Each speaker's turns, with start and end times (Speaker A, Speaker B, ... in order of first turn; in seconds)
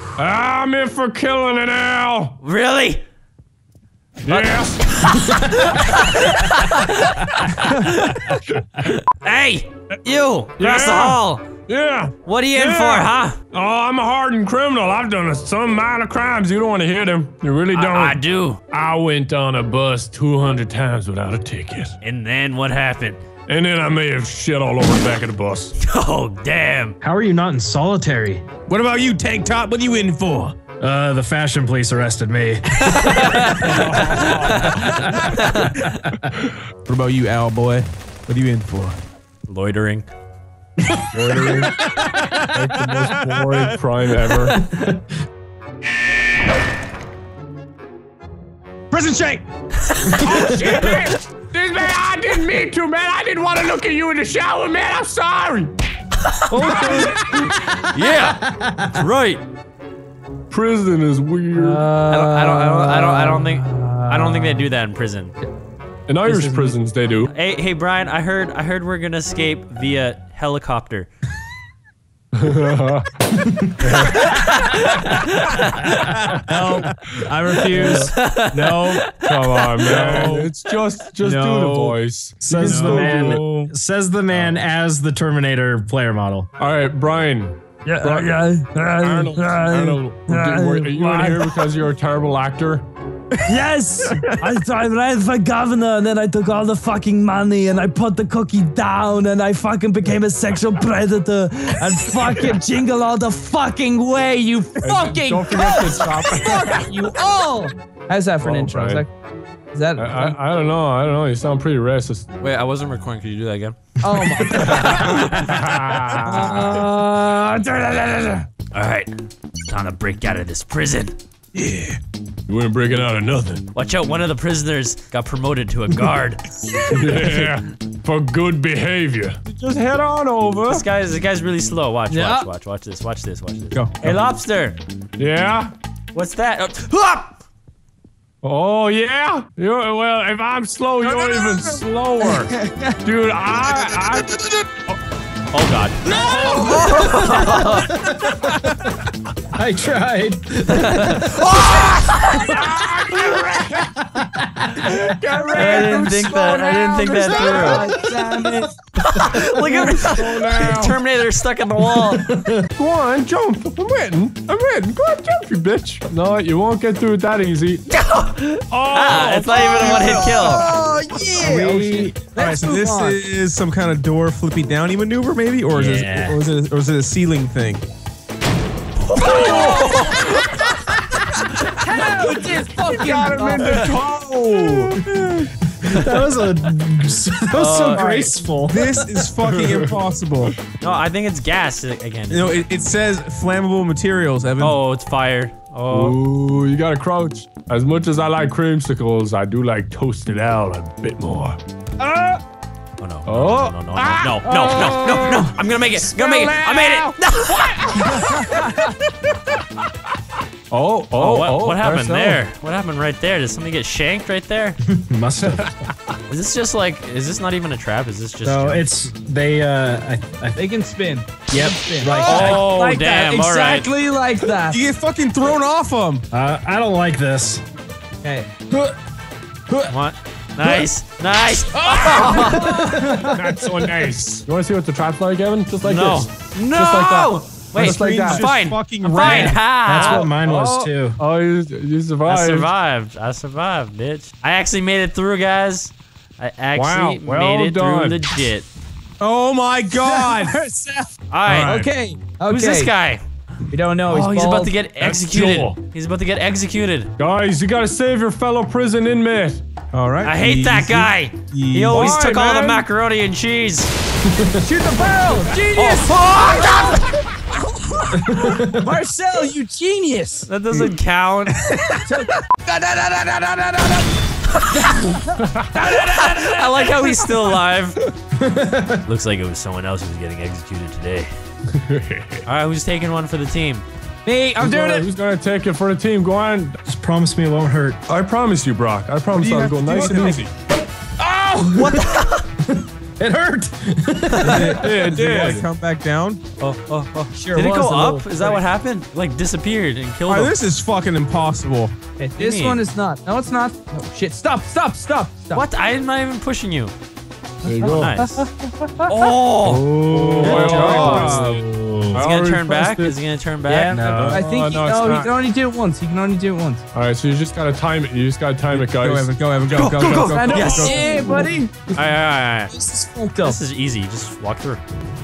Speaker A: 0.2-2.4, 4.2-5.3, 8.4-8.9, 10.6-18.2, 18.7-22.0, 23.5-25.8, 33.8-34.2, 41.1-44.6, 50.1-55.7, 56.6-57.4, 60.5-61.9, 66.1-67.3, 72.3-73.1, 73.8-74.3, 77.7-78.1, 79.2-83.4, 86.6-92.8, 104.8-107.0, 108.4-109.0, 110.0-112.3, 114.5-116.8, 122.5-123.6, 126.9-130.8, 135.2-135.7, 138.4-142.5, 143.0-144.4, 152.3-153.9, 154.8-158.0, 159.7-161.0, 162.8-167.8, 168.7-170.5, 182.0-182.3, 182.8-185.0, 195.9-201.6, 203.2-208.9, 210.7-212.4, 215.4-215.9, 233.2-238.6, 239.9-242.7, 246.7-248.2, 255.0-255.8, 257.2-259.6, 261.9-262.9, 275.4-275.7, 281.7-282.4, 284.6-286.8, 288.1-290.5, 294.7-295.7, 307.6-308.2, 310.3-313.2, 314.1-315.3, 316.9-319.3, 320.5-321.1
Speaker B: 2.4-3.0, 4.3-11.5, 12.2-13.4, 17.7-18.6, 22.0-23.2, 25.8-27.0, 32.8-35.9, 39.5-40.1, 49.9-50.6, 57.9-59.4, 62.1-65.3, 67.3-71.1, 74.1-76.2, 77.8-80.4, 112.4-115.7, 118.7-119.1, 119.6-121.2, 123.7-126.4, 130.7-134.8, 136.1-137.4, 145.5-146.0, 146.7-147.9, 150.7-152.6, 155.5-157.9, 159.0-162.3, 167.9-170.6, 179.0-180.9, 187.5-188.1, 190.8-192.6, 194.6-196.2, 203.0-208.4, 211.2-214.8, 216.3-218.9, 222.2-223.9, 229.9-232.8, 235.8-240.3, 242.2-248.7, 251.3-251.8, 252.5-253.2, 254.1-257.1, 260.2-263.9, 265.8-267.2, 270.4-271.7, 276.0-278.0, 279.1-281.3, 282.4-283.9, 291.7-292.4, 296.6-300.6, 302.4-302.8, 305.5-306.9, 307.8-308.4, 309.1-309.9, 310.4-311.4, 312.1-314.1, 319.7-321.2, 321.9-322.7, 323.4-324.8
Speaker C: 27.0-28.4, 30.8-36.2, 41.1-41.7, 50.4-50.7, 56.6-57.3, 58.2-59.0, 73.4-73.7, 76.0-78.0, 78.5-78.9, 82.4-86.5, 146.1-148.9, 149.5-151.8, 154.0-155.8, 158.2-158.7, 161.9-162.7, 171.4-172.2, 175.7-176.5, 185.7-189.9, 214.9-215.7, 218.4-220.6, 221.5-222.7, 226.3-227.6, 232.4-233.5, 239.2-241.2, 268.1-268.9, 278.4-279.0, 286.9-288.0, 291.6-292.1, 292.7-295.2, 309.6-312.2, 313.9-314.4
Speaker D: 28.7-30.6, 36.8-39.0, 42.7-43.7, 44.3-44.6, 48.9-49.4, 79.8-80.5, 82.6-83.2, 94.1-94.3, 121.5-122.0, 133.7-134.1, 169.8-170.7, 172.3-177.9, 183.7-185.5, 188.7-190.6, 192.3-194.8, 222.1-222.5, 224.7-226.2, 237.8-239.6, 249.2-250.6, 251.4-251.9, 259.9-262.2, 289.3-290.5, 294.4-296.4, 300.3-301.9, 310.1-311.6, 318.7-321.6
Speaker E: 56.5-57.3, 61.5-64.7, 66.2-66.8, 77.3-78.8, 81.3-82.0, 82.8-83.7, 87.8-91.7, 93.5-109.1, 109.7-110.3, 114.0-115.0, 116.2-118.5, 126.7-127.5, 132.1-132.5, 141.0-141.8, 142.3-142.9, 146.3-147.9, 157.0-158.7, 169.8-173.2, 179.2-180.1, 181.8-183.9, 187.9-188.3, 202.0-202.4, 220.5-224.8, 228.2-228.9, 231.7-233.2, 250.0-251.1, 251.7-252.9, 253.7-254.8, 264.6-267.0, 268.7-270.5, 271.8-274.2, 275.7-277.4, 284.2-285.1, 297.3-298.6, 302.2-305.7, 307.6-309.1, 313.6-316.8, 320.3-321.9, 322.7-323.6